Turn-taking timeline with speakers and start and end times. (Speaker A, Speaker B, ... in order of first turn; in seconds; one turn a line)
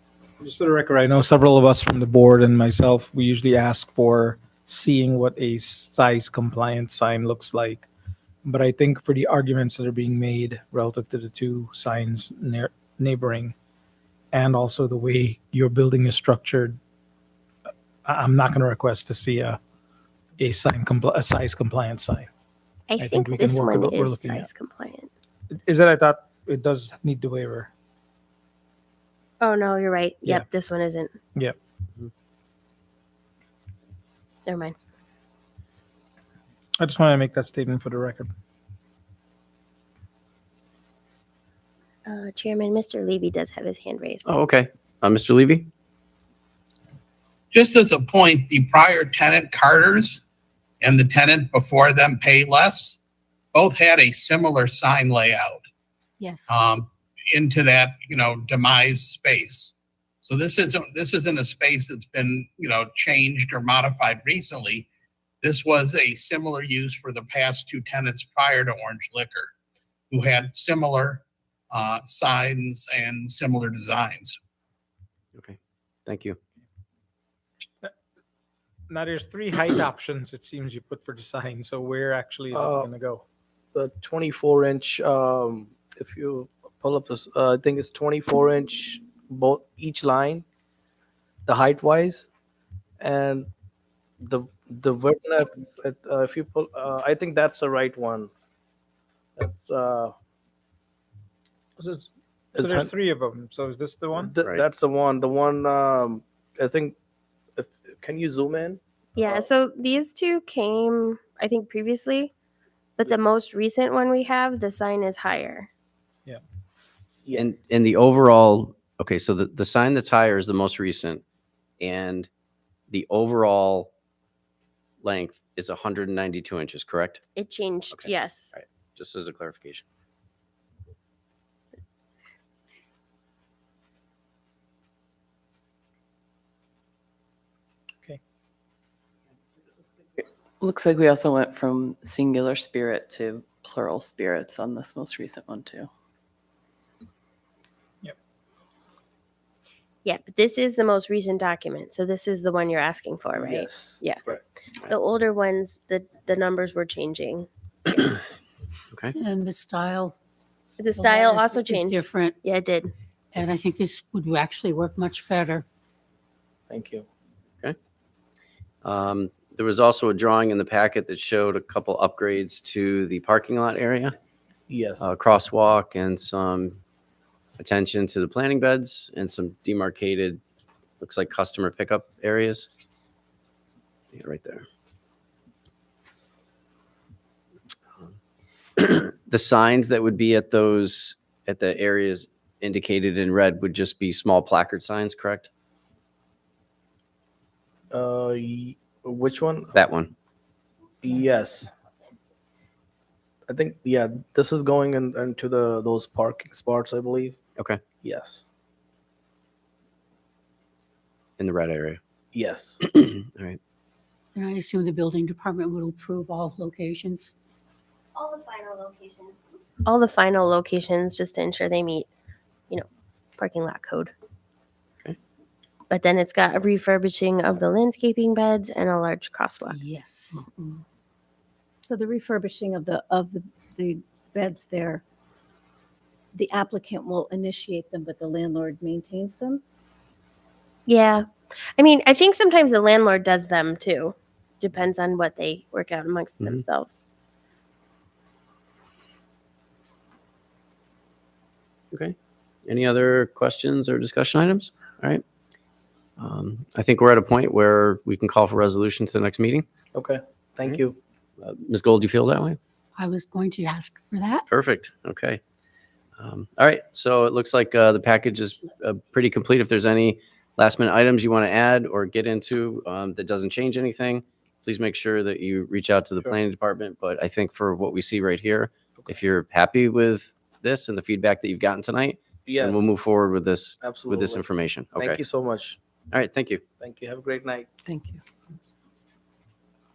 Speaker A: 0.4-7.9
Speaker A: 8.4-13.5
Speaker A: 14.3-16.8
Speaker A: 18.0-19.6
Speaker A: 20.4-22.3
Speaker B: 22.9-25.1
Speaker A: 23.0-24.5
Speaker A: 25.5-27.7
Speaker B: 29.4-31.1
Speaker B: 34.5-34.7
Speaker A: 36.8-38.3
Speaker B: 42.0-44.2
Speaker C: 44.2-45.7
Speaker D: 47.5-50.2
Speaker D: 50.8-53.0
Speaker D: 53.5-55.6
Speaker E: 56.2-56.5
Speaker D: 56.5-64.9
Speaker D: 65.4-69.5
Speaker D: 70.1-74.4
Speaker C: 75.3-76.4
Speaker A: 78.9-83.2
Speaker F: 82.5-82.9
Speaker F: 83.7-90.4
Speaker F: 91.5-92.3
Speaker F: 93.0-93.5
Speaker F: 94.2-98.3
Speaker F: 99.4-100.1
Speaker A: 101.8-104.3
Speaker F: 102.5-102.9
Speaker F: 104.1-106.9
Speaker F: 107.5-109.5
Speaker B: 109.2-112.3
Speaker B: 113.0-115.7
Speaker F: 117.2-117.5
Speaker C: 117.3-121.2
Speaker C: 121.8-122.3
Speaker C: 122.9-123.9
Speaker C: 125.0-127.2
Speaker B: 127.3-128.5
Speaker C: 127.9-129.8
Speaker G: 140.6-145.8
Speaker B: 150.0-154.2
Speaker F: 153.3-154.4
Speaker B: 154.8-158.2
Speaker E: 159.1-160.1
Speaker B: 160.8-162.9
Speaker E: 160.9-162.3
Speaker E: 163.3-165.6
Speaker F: 166.7-167.0
Speaker C: 168.8-174.1
Speaker F: 174.7-175.1
Speaker C: 175.0-176.8
Speaker C: 177.6-180.4
Speaker C: 181.0-182.7
Speaker C: 184.1-184.6
Speaker C: 188.8-195.5
Speaker F: 197.9-199.7
Speaker C: 199.7-200.1
Speaker F: 201.0-201.7
Speaker F: 203.5-207.3
Speaker F: 208.0-208.4
Speaker C: 211.4-212.0
Speaker F: 212.3-212.8
Speaker C: 212.9-213.6
Speaker E: 214.3-217.3
Speaker B: 218.1-222.1
Speaker B: 223.4-224.1
Speaker B: 225.9-229.8
Speaker E: 229.7-230.4
Speaker H: 231.8-235.0
Speaker H: 236.3-239.6
Speaker B: 240.9-241.2
Speaker B: 241.8-247.1
Speaker C: 252.7-255.2
Speaker C: 256.2-259.6
Speaker F: 259.9-261.0
Speaker C: 261.4-262.6
Speaker E: 262.9-264.4
Speaker C: 264.5-265.4
Speaker C: 266.2-285.2
Speaker F: 282.4-282.9
Speaker F: 283.8-285.8
Speaker C: 286.1-286.6
Speaker F: 286.8-287.7